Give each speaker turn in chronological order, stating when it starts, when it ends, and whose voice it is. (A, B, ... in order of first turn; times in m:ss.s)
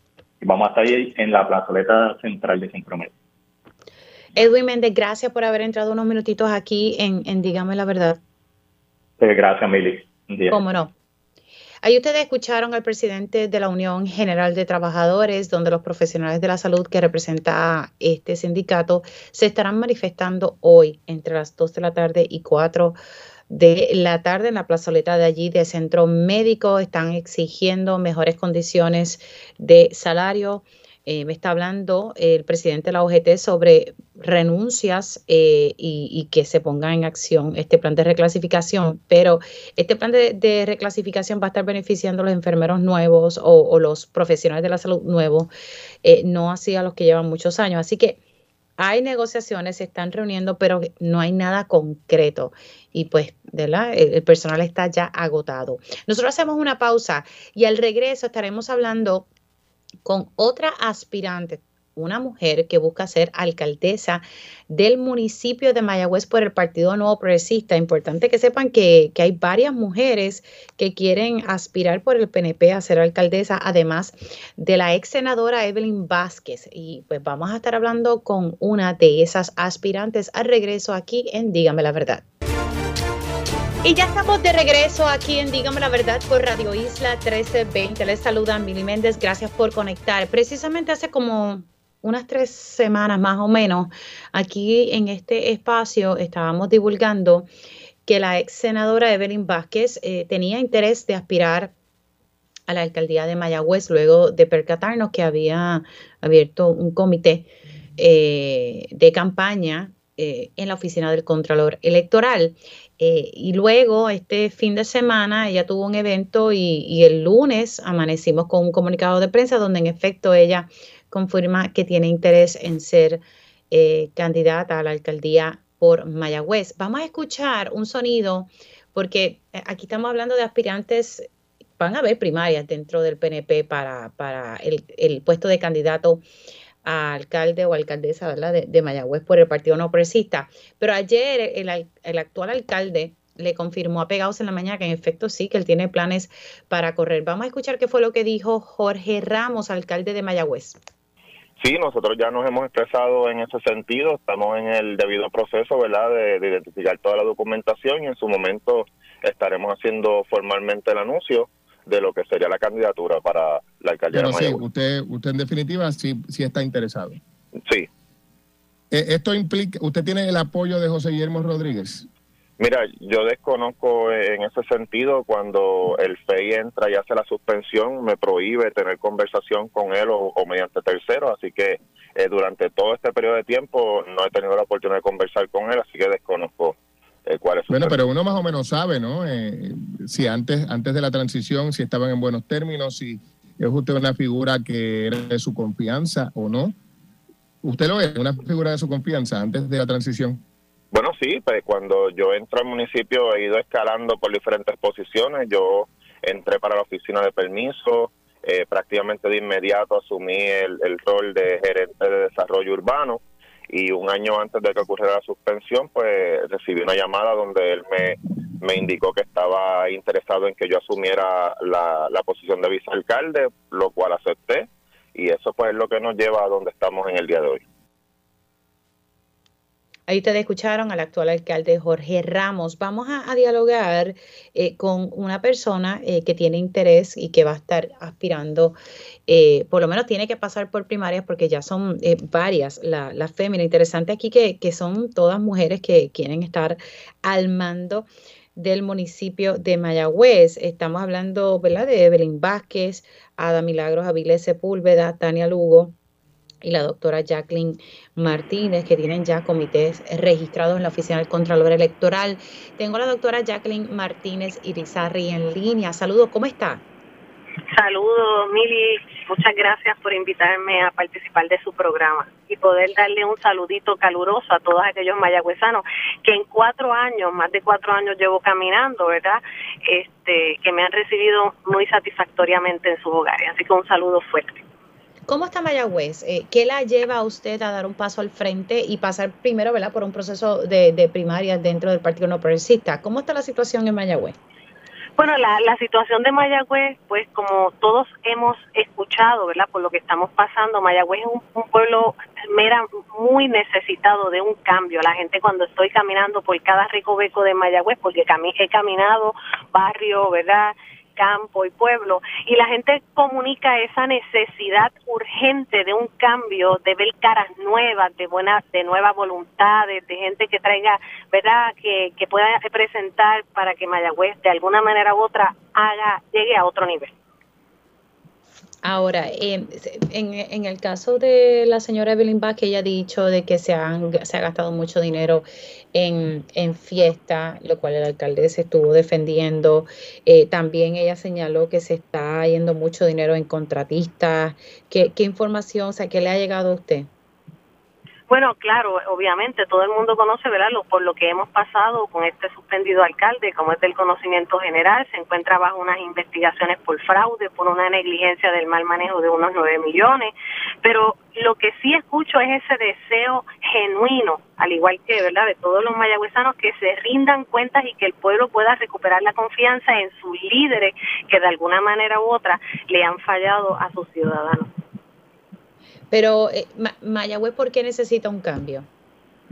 0:00.4-0:03.1 A
0:04.4-0:08.2 B
0:09.2-0:10.6 A
0:10.5-0:10.9 B
0:11.8-0:23.0 B
0:23.5-0:45.5 B
0:46.0-0:48.2 B
0:48.8-0:59.3 B
1:00.0-1:22.2 B
1:23.8-1:37.5 B
1:38.1-1:41.7 B
1:42.7-2:11.3 B
2:11.8-2:16.2 B
2:16.8-2:30.8 B
2:31.6-2:44.6 C
2:44.1-2:47.2 D
2:48.9-2:52.1 D
2:52.6-3:08.0 C
3:07.7-3:16.8 D
3:17.6-3:20.4 D
3:20.9-3:47.6 C
3:50.1-3:58.8 B
3:59.3-4:15.9 B
4:16.6-4:26.8 B
4:27.7-4:44.6 E
4:45.3-4:54.4 B
4:55.2-5:27.1 E
5:28.8-5:47.1 B
5:48.3-6:14.7 E
6:16.1-6:18.9 B